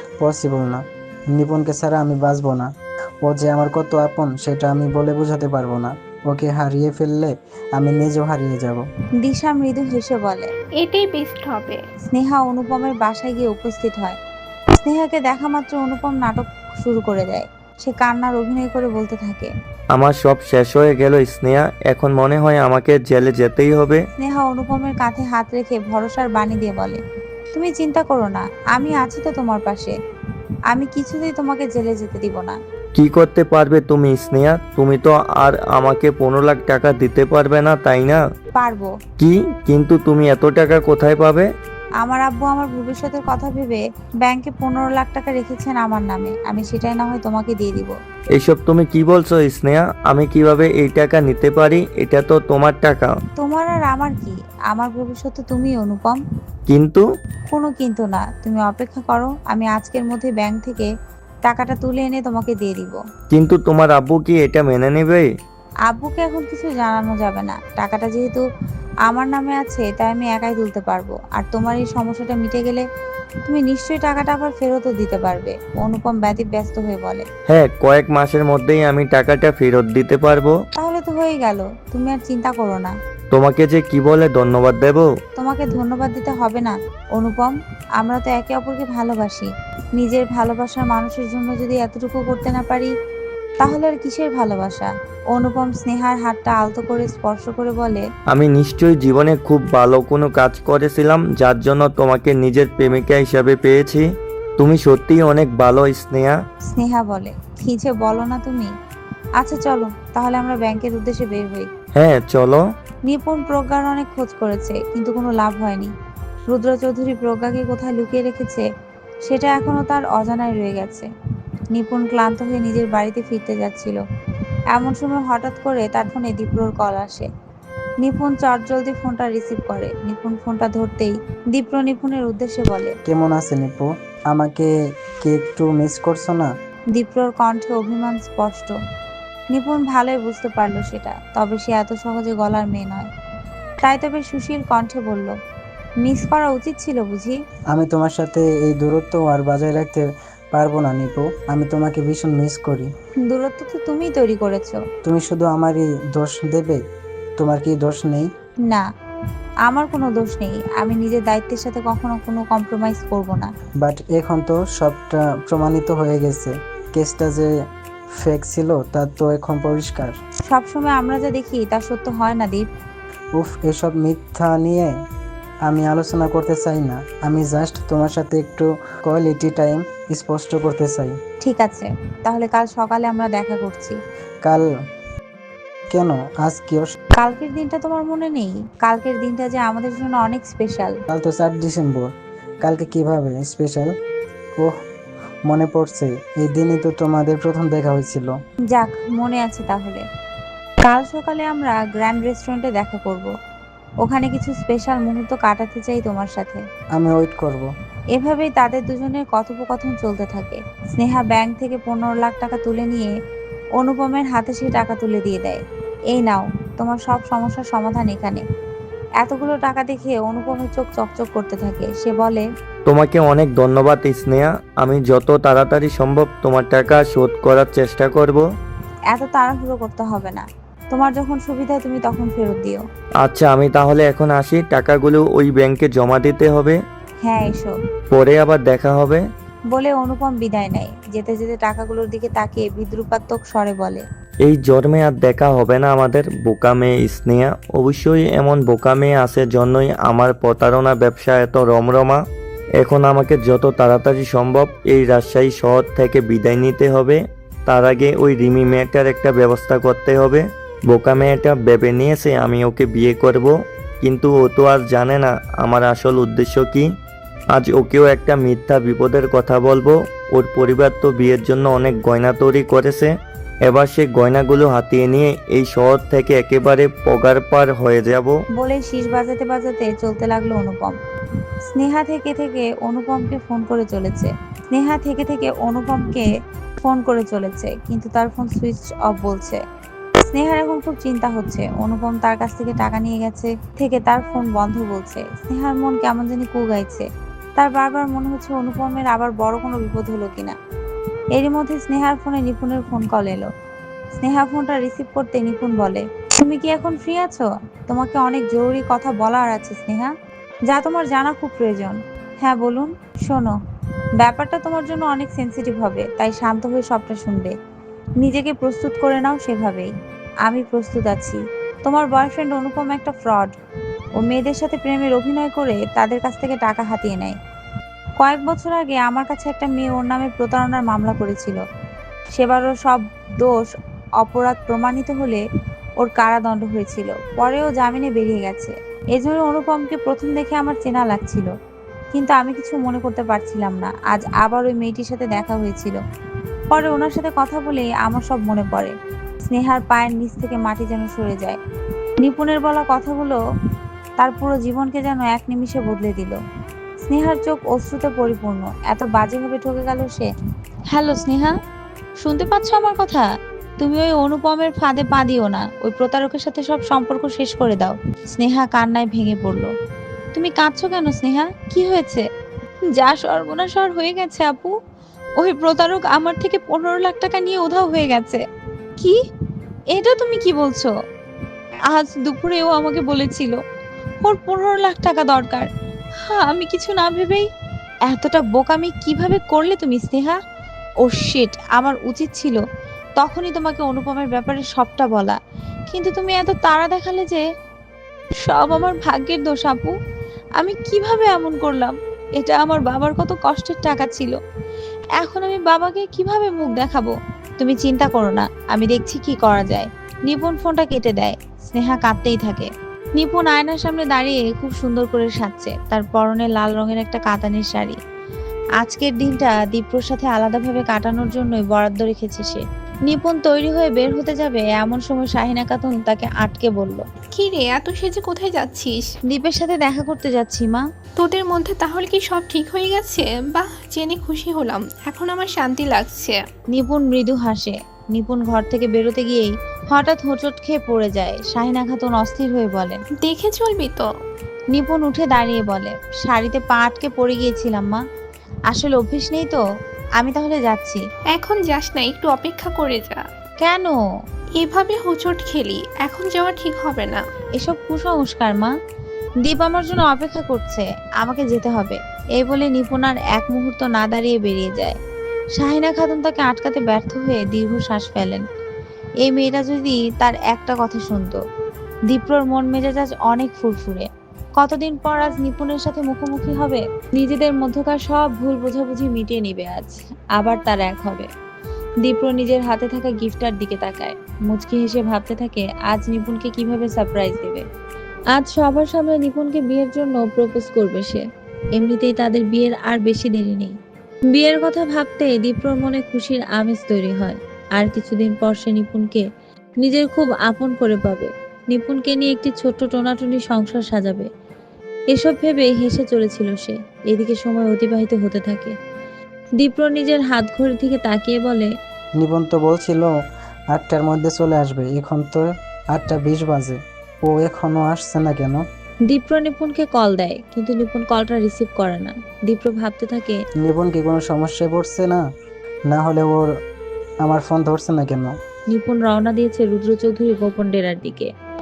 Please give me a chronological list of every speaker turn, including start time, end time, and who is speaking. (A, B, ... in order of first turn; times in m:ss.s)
0:00.2-0:02.7 A
0:03.2-0:08.8 A
0:09.2-0:10.5 B
0:10.8-0:11.8 C
0:12.1-0:14.2 B
0:14.8-0:19.5 B
0:19.9-0:24.0 D
0:24.2-0:27.0 B
0:27.5-0:29.9 B
0:30.7-0:32.6 B
0:33.0-0:38.2 D
0:38.6-0:38.9 B
0:39.2-0:41.5 D
0:42.0-0:48.0 B
0:48.4-0:53.1 D
0:53.4-0:56.2 B
0:56.7-0:57.0 D
0:57.5-1:00.9 B
1:01.4-1:03.0 B
1:03.3-1:05.3 D
1:05.9-1:08.4 B
1:09.1-1:12.9 B
1:13.4-1:17.2 B
1:17.5-1:20.6 D
1:20.8-1:22.9 B
1:23.3-1:25.1 D
1:25.4-1:32.9 B
1:33.6-1:38.0 B
1:38.3-1:44.1 D
1:44.6-1:46.4 D
1:46.7-1:48.7 B
1:49.4-1:51.7 B
1:51.9-1:52.6 D
1:53.0-1:55.9 B
1:56.5-1:58.6 B
1:59.2-2:01.1 B
2:01.7-2:04.0 B
2:04.7-2:07.3 B
2:08.0-2:12.9 B
2:13.1-2:16.5 A
2:16.9-2:18.8 B
2:19.5-2:23.1 B
2:23.8-2:25.3 B
2:26.0-2:27.4 B
2:27.7-2:32.9 A
2:33.2-2:34.8 B
2:35.0-2:36.8 A
2:37.4-2:38.3 A
2:39.7-2:43.5 B
2:43.8-2:47.5 A
2:48.2-2:50.2 A
2:50.5-2:52.6 B
2:53.4-2:54.9 A
2:55.7-3:01.2 A
3:01.4-3:04.0 B
3:05.9-3:06.9 A
3:07.2-3:11.0 B
3:11.1-3:12.1 A
3:12.6-3:13.9 A
3:15.5-3:18.3 A
3:18.7-3:20.0 B
3:20.8-3:23.3 B
3:24.0-3:26.6 B
3:26.9-3:27.7 A
3:28.2-3:33.1 B
3:33.8-3:38.4 B
3:39.2-3:42.4 B
3:42.8-3:48.4 D
3:49.1-3:52.8 B
3:53.2-3:56.8 D
3:57.2-3:57.7 B
3:58.1-3:59.2 D
3:59.7-4:04.0 B
4:04.4-4:12.2 D
4:12.8-4:26.9 D
4:27.5-4:33.1 D
4:33.7-4:38.4 D
4:38.6-4:41.0 B
4:41.7-4:46.3 B
4:46.8-4:49.6 B
4:50.2-5:00.6 B
5:01.3-5:03.5 B
5:04.1-5:10.1 B
5:10.7-5:13.6 B
5:14.2-5:17.5 B
5:18.2-5:19.9 B
5:20.4-5:23.5 B
5:24.2-5:27.4 B
5:28.2-5:31.6 B
5:32.3-5:33.7 B
5:34.2-5:35.4 B
5:36.0-5:41.5 B
5:42.1-5:46.0 B
5:46.7-5:51.6 B
5:52.2-5:53.4 B
5:54.2-5:56.4 B
5:57.0-6:00.3 B
6:00.9-6:01.6 B
6:02.2-6:03.3 B
6:03.8-6:09.7 B
6:10.3-6:12.2 B
6:13.0-6:14.7 B
6:15.4-6:18.4 B
6:19.9-6:20.9 B
6:21.9-6:23.6 B
6:24.2-6:25.7 B
6:26.3-6:27.5 B
6:28.1-6:30.4 B
6:31.0-6:32.6 B
6:33.2-6:35.4 B
6:35.9-6:37.4 B
6:38.4-6:39.9 B
6:40.6-6:44.4 B
6:45.2-6:58.0 B
6:58.8-7:07.0 B
7:07.3-7:09.0 C
7:09.3-7:10.8 B
7:11.2-7:16.4 C
7:16.7-7:23.0 B
7:23.2-7:24.1 C
7:24.7-7:28.0 B
7:28.7-7:29.6 B
7:30.2-7:31.0 B
7:31.3-7:33.2 C
7:33.6-7:34.0 B
7:34.6-7:37.2 C
7:37.6-7:38.7 B
7:39.4-7:45.0 B
7:45.6-7:48.4 B
7:49.2-7:51.4 B
7:52.1-7:54.1 B
7:54.6-8:01.3 B
8:02.0-8:07.6 B
8:08.3-8:11.2 B
8:11.8-8:13.8 B
8:14.3-8:19.3 B
8:19.8-8:24.3 B
8:25.1-8:28.8 B
8:29.6-8:31.7 B
8:32.2-8:33.1 A
8:33.7-8:38.6 A
8:39.1-8:43.4 B
8:43.6-8:45.2 A
8:45.9-8:46.5 A
8:47.2-8:48.4 A
8:48.7-8:51.3 B